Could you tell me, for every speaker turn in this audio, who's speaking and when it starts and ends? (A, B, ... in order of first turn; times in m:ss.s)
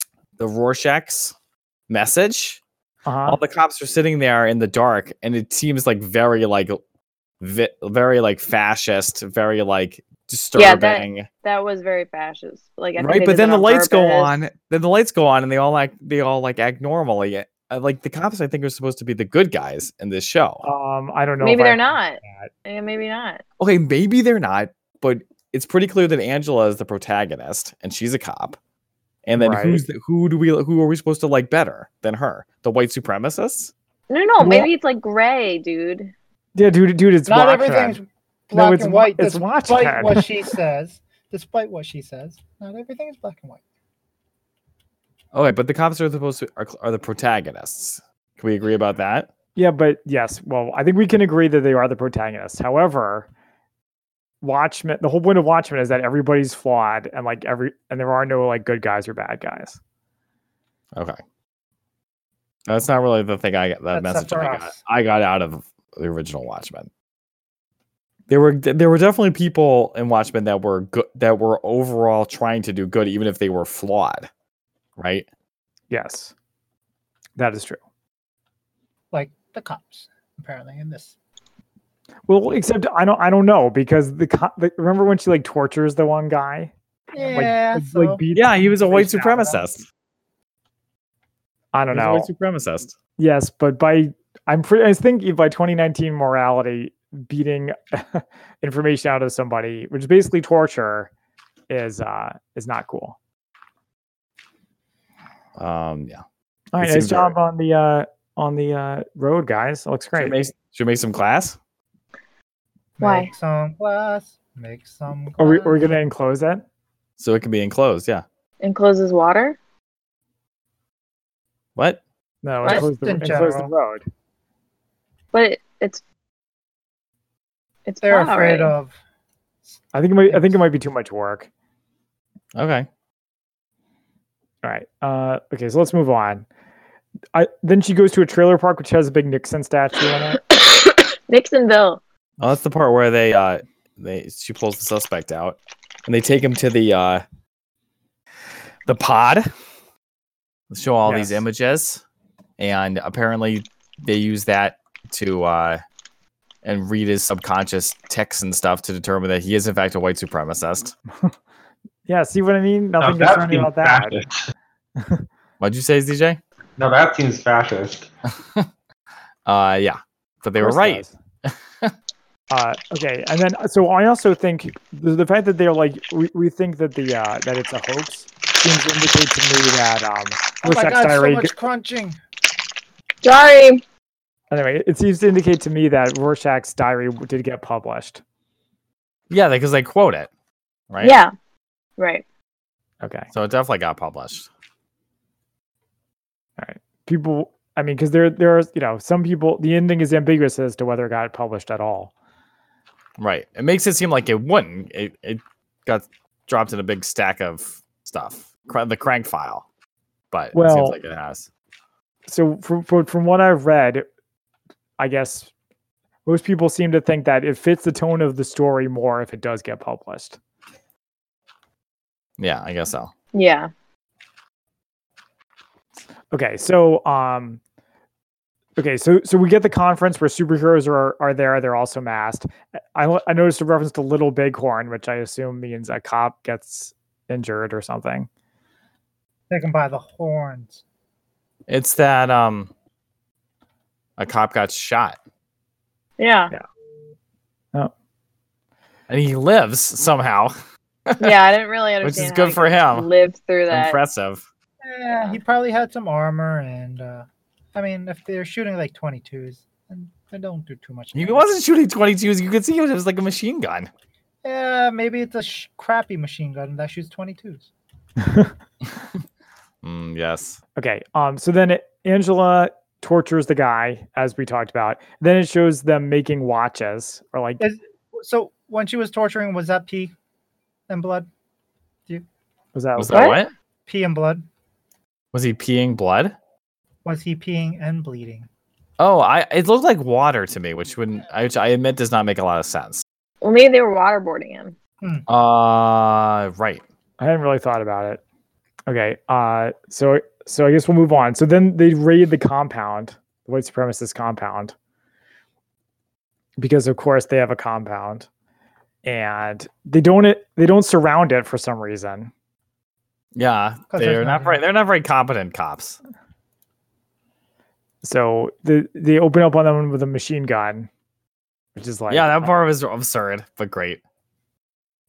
0:00.4-0:01.4 A
0:01.9-0:02.6 A
0:03.1-0:03.4 B
0:03.3-0:06.8 A
0:07.4-0:11.3 A
0:10.6-0:14.4 C
0:13.0-0:20.6 A
0:20.6-0:22.5 B
0:21.4-0:23.4 C
0:23.6-0:28.6 A
0:29.3-0:33.7 A
0:29.4-0:29.8 B
0:34.1-0:36.1 C
0:34.4-0:34.7 B
0:36.6-0:38.0 B
0:37.3-0:43.6 D
0:38.5-0:40.4 B
0:45.3-0:49.3 A
0:49.6-0:53.3 B
0:54.4-0:59.8 B
1:02.7-1:06.9 A
1:03.9-1:04.8 D
1:08.3-1:14.3 A
1:15.0-1:15.3 A
1:15.9-1:16.3 B
1:17.4-1:17.8 B
1:19.1-1:21.2 D
1:22.3-1:29.6 B
1:27.1-1:28.2 D
1:28.3-1:29.8 A
1:31.7-1:32.3 B
1:31.9-1:32.9 A
1:33.2-1:41.1 B
1:41.7-1:43.2 B
1:45.6-1:46.2 A
1:46.7-1:50.4 B
1:46.8-1:47.3 A
1:50.2-1:51.6 A
1:53.0-1:55.9 D
1:53.0-1:53.3 C
1:55.4-1:56.6 B
1:57.2-1:58.2 A
1:58.6-1:59.6 C
2:01.8-2:02.0 A
2:02.4-2:04.0 B
2:02.6-2:03.7 D
2:05.3-2:06.0 C
2:07.9-2:08.7 C
2:08.0-2:09.0 D
2:09.7-2:10.6 D
2:09.9-2:11.5 B
2:12.5-2:12.9 A
2:14.6-2:16.5 B
2:17.3-2:20.4 B
2:20.5-2:22.0 C
2:22.4-2:27.2 A
2:28.9-2:29.5 A
2:30.7-2:32.0 A
2:31.1-2:31.4 B
2:32.6-2:35.8 A
2:36.6-2:40.9 A
2:42.1-2:44.2 B
2:43.0-2:44.4 E
2:45.0-2:45.3 B
2:45.6-2:46.4 A
2:46.8-2:48.1 E
2:49.5-2:51.9 A
2:50.6-2:51.2 B
2:52.5-3:01.5 B
3:00.6-3:02.2 D
3:03.2-3:03.8 C
3:04.5-3:08.2 B
3:09.3-3:10.3 A
3:10.9-3:11.2 A
3:11.0-3:11.3 C
3:12.0-3:12.2 C
3:13.0-3:13.3 B
3:13.3-3:14.5 A
3:16.6-3:22.1 B
3:23.2-3:29.6 A
3:30.3-3:31.5 A
3:30.5-3:31.0 B
3:32.3-3:34.1 B
3:35.0-3:35.5 B
3:36.2-3:40.4 B
3:42.4-3:43.1 A
3:43.3-3:43.7 C
3:46.3-3:47.6 B
3:48.8-3:58.3 B
3:59.5-4:00.8 D
4:01.7-4:02.7 A
4:04.2-4:05.2 A
4:06.2-4:06.5 C
4:09.1-4:10.6 A
4:11.1-4:11.4 A
4:11.2-4:14.0 C
4:12.0-4:13.1 A
4:13.7-4:14.4 A
4:14.8-4:21.5 D
4:21.1-4:23.9 A
4:24.4-4:27.7 D
4:28.2-4:28.5 B
4:29.8-4:30.6 A
4:30.8-4:37.6 B
4:37.6-4:40.1 D
4:40.9-4:41.3 D
4:42.8-4:43.3 B
4:43.0-4:43.5 A
4:43.1-4:43.4 C
4:43.9-4:44.5 D
4:45.3-4:46.4 A
4:47.0-4:48.5 D
4:49.0-4:53.0 A
4:53.4-4:54.8 C
4:55.0-4:55.3 D
4:55.3-4:56.8 A
4:57.2-4:58.2 B
4:58.9-5:04.7 B
5:06.6-5:08.3 B
5:09.0-5:12.3 B
5:13.4-5:16.0 A
5:13.9-5:14.6 D
5:18.0-5:20.9 B
5:21.8-5:22.5 B
5:22.1-5:24.0 A